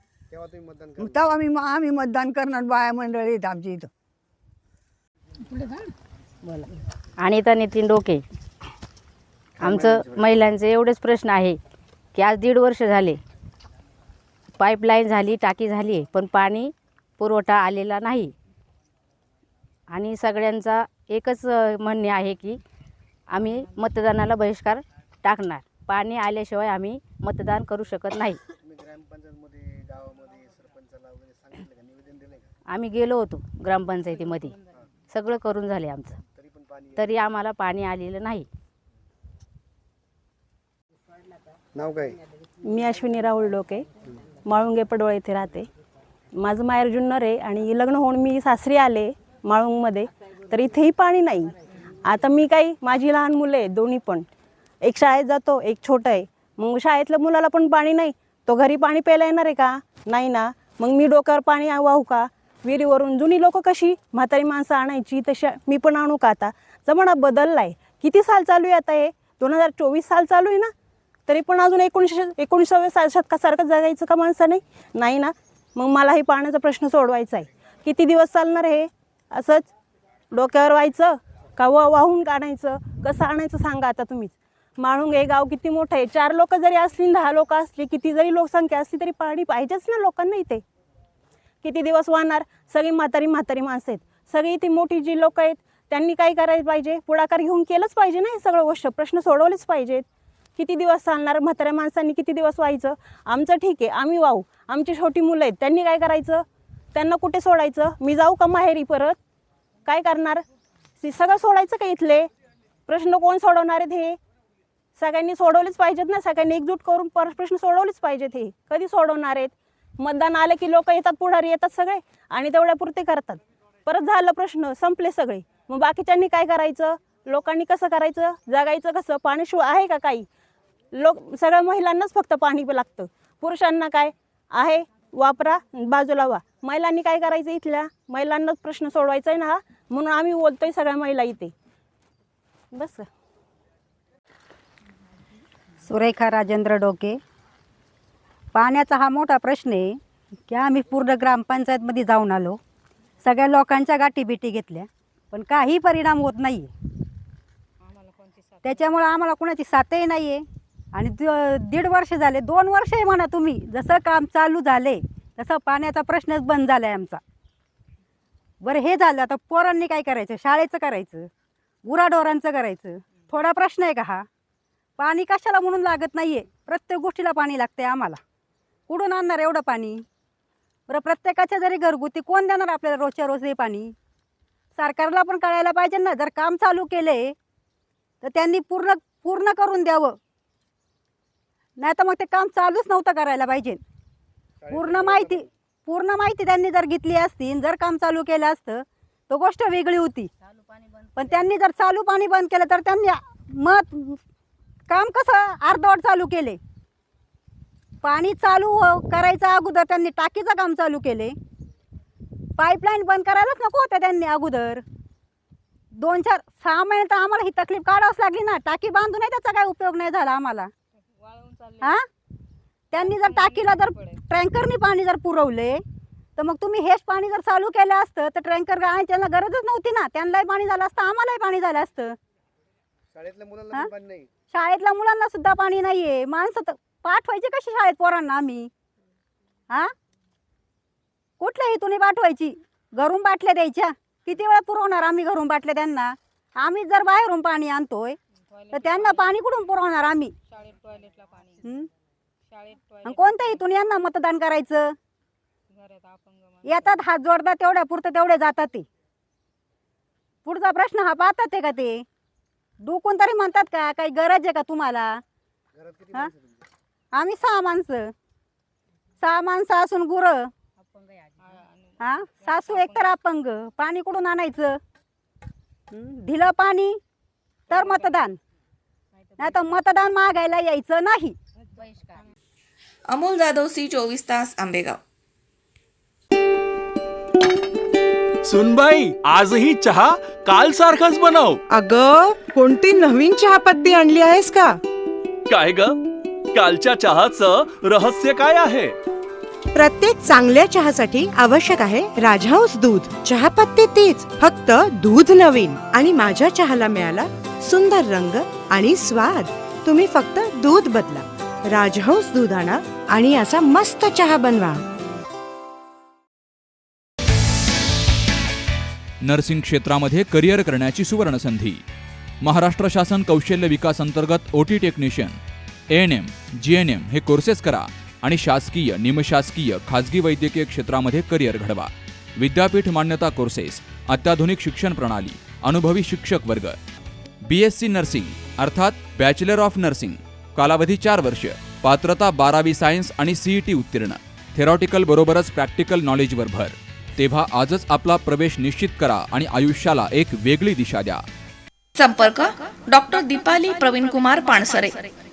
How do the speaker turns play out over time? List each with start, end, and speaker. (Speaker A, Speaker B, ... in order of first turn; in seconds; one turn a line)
Speaker A: 0.3-1.2
Speaker B: 1.0-3.9
Speaker C: 7.2-8.2
Speaker A: 9.6-10.3
Speaker C: 9.6-11.6
Speaker C: 12.2-13.2
Speaker C: 14.6-18.3
Speaker C: 19.9-22.6
Speaker C: 23.3-28.4
Speaker A: 28.6-32.5
Speaker C: 32.7-34.6
Speaker C: 35.1-36.2
Speaker A: 36.4-37.1
Speaker C: 37.0-38.5
Speaker A: 41.8-42.2
Speaker D: 42.6-43.9
Speaker D: 44.5-45.7
Speaker D: 46.4-51.5
Speaker D: 52.0-54.3
Speaker D: 54.8-70.7
Speaker D: 71.3-79.7
Speaker D: 80.3-90.6
Speaker D: 91.6-100.0
Speaker D: 100.6-109.2
Speaker D: 109.9-110.4
Speaker D: 111.0-112.3
Speaker D: 112.9-114.2
Speaker D: 115.0-130.3
Speaker D: 130.9-141.5
Speaker D: 142.7-143.1
Speaker E: 145.8-147.2
Speaker E: 148.5-150.0
Speaker E: 150.5-152.6
Speaker E: 153.2-156.7
Speaker E: 158.6-160.4
Speaker E: 160.9-167.2
Speaker E: 168.6-171.3
Speaker E: 171.8-174.3
Speaker E: 175.0-178.2
Speaker E: 178.9-180.0
Speaker E: 180.9-183.9
Speaker E: 184.8-187.3
Speaker E: 188.2-190.2
Speaker E: 191.8-193.8
Speaker A: 194.6-195.5
Speaker E: 194.7-200.3
Speaker E: 201.2-204.2
Speaker E: 204.9-206.6
Speaker E: 208.0-211.3
Speaker E: 212.6-214.8
Speaker E: 216.0-220.7
Speaker E: 222.9-225.8
Speaker E: 226.4-232.2
Speaker A: 233.1-234.3
Speaker E: 234.5-238.7
Speaker E: 241.4-248.2
Speaker E: 248.7-250.3
Speaker E: 253.0-254.9
Speaker E: 256.6-258.9
Speaker E: 260.4-262.1
Speaker E: 262.8-265.2
Speaker A: 265.8-266.7
Speaker E: 267.1-268.1
Speaker E: 269.2-270.5
Speaker E: 272.0-274.8
Speaker E: 275.9-277.0
Speaker E: 277.7-278.4
Speaker E: 279.4-281.4
Speaker F: 283.1-285.0
Speaker G: 288.5-291.6
Speaker G: 295.5-295.9
Speaker G: 296.5-298.9
Speaker H: 299.8-301.2
Speaker H: 301.7-311.2
Speaker H: 311.8-314.8
Speaker I: 319.2-321.8
Speaker I: 322.4-325.4
Speaker I: 325.9-336.8
Speaker I: 337.5-351.2
Speaker J: 352.0-354.9